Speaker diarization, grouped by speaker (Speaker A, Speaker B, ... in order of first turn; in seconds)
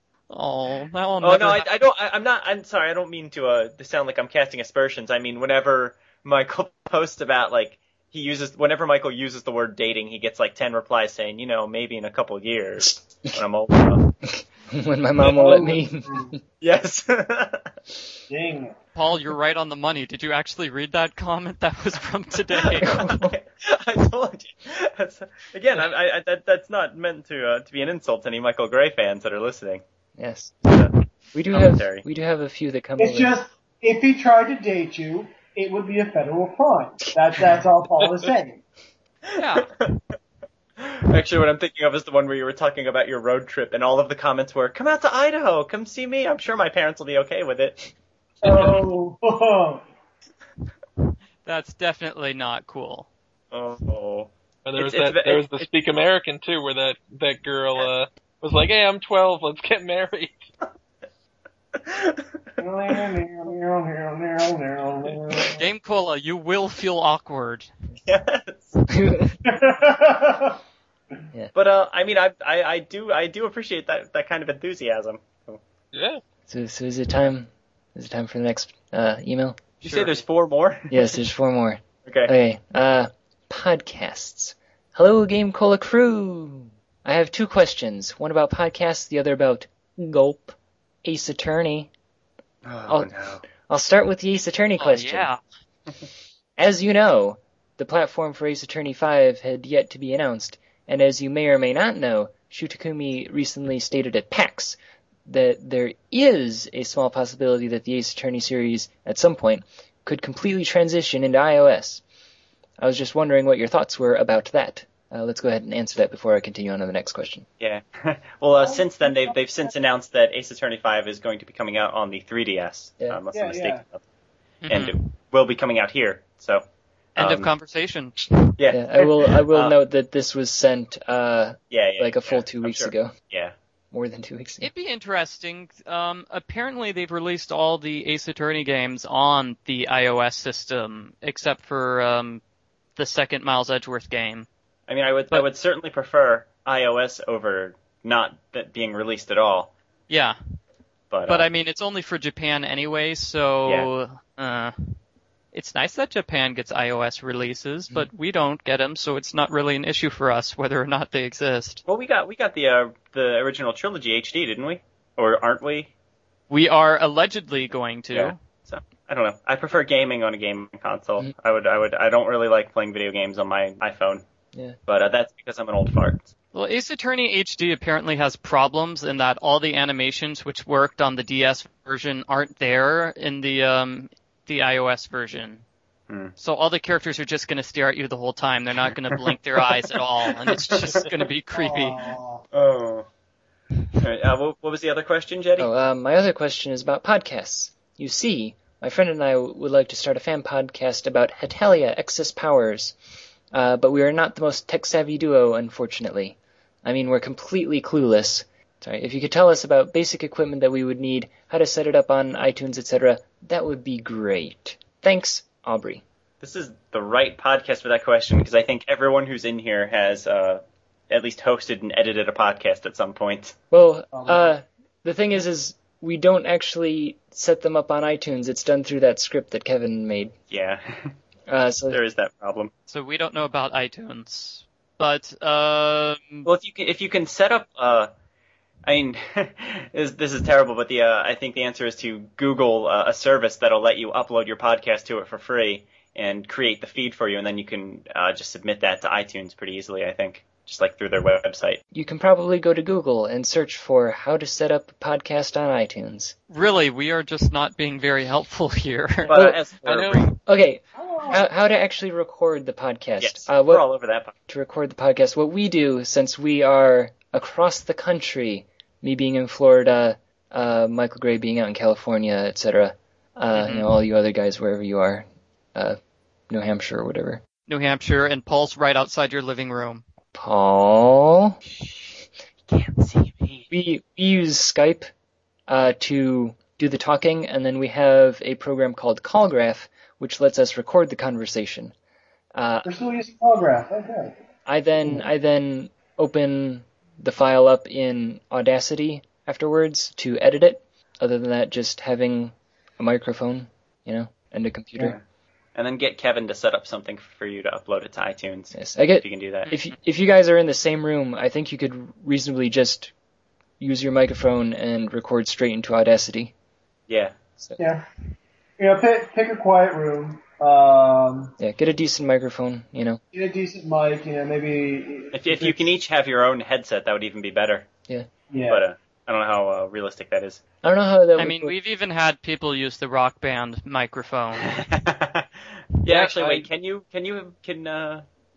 Speaker A: 0.3-1.7, 18.9-23.0, 39.4-39.7, 51.5-53.1, 65.5-67.7, 79.8-80.1, 94.8-95.4, 124.6-125.0, 127.2-128.4, 134.6-142.4, 143.0-144.5, 150.1-150.4, 151.3-154.7, 155.5-161.8, 166.5-168.4, 176.5-185.6, 186.4-192.0, 232.9-236.5, 256.5-259.3, 273.5-273.9, 277.7-280.0, 331.4-334.8
Speaker B: 1.2-14.1, 16.6-17.7, 22.6-29.8, 31.5-32.0, 39.3-40.0, 40.8-47.8, 53.5-55.7, 61.8-62.2, 68.0-68.8, 71.5-75.6, 79.8-81.0, 82.1-82.3, 92.7-93.4, 117.6-124.0, 124.7-126.6, 127.2-127.5, 128.6-129.8, 131.7-133.6, 144.9-149.7, 151.1-151.5, 161.9-165.9, 168.1-174.2, 174.9-176.3, 190.5-191.1, 192.5-193.1, 194.0-195.7, 216.4-223.6, 230.5-231.1, 231.9-232.7, 236.5-238.1, 238.9-251.8, 259.2-260.4, 263.2-264.3, 281.7-283.7, 305.8-309.7, 317.1-317.4, 325.3-327.9, 328.7-330.6, 334.6-335.5, 336.0-338.2
Speaker C: 14.1-16.4, 22.8-23.3, 30.2-30.8, 31.3-33.3, 68.9-69.3, 76.5-79.6, 80.9-91.9, 92.9-95.3, 96.6-112.0, 112.8-117.5, 128.7-133.1, 133.9-134.7, 195.6-203.0, 203.5-216.0, 223.7-230.3, 231.5-232.0, 251.9-256.4, 259.3-259.6, 260.5-263.8, 264.5-276.0, 276.5-277.4, 280.3-281.6, 283.7-285.1, 285.7-291.9, 292.6-292.9, 294.7-305.2, 308.7-313.1, 313.8-316.5, 321.6-323.2, 330.8-331.7
Speaker D: 15.2-16.4, 18.3-18.8, 33.0-38.6, 48.4-49.8, 62.6-65.7, 69.5-70.6, 118.6-119.7, 123.3-123.8, 191.5-192.4, 224.1-224.5, 261.0-261.4, 292.9-294.4, 317.8-318.1, 318.8-321.6, 323.3-325.9, 328.5-328.8
Speaker E: 48.4-48.7, 54.7-60.4, 75.9-76.2, 259.9-260.3, 336.1-336.7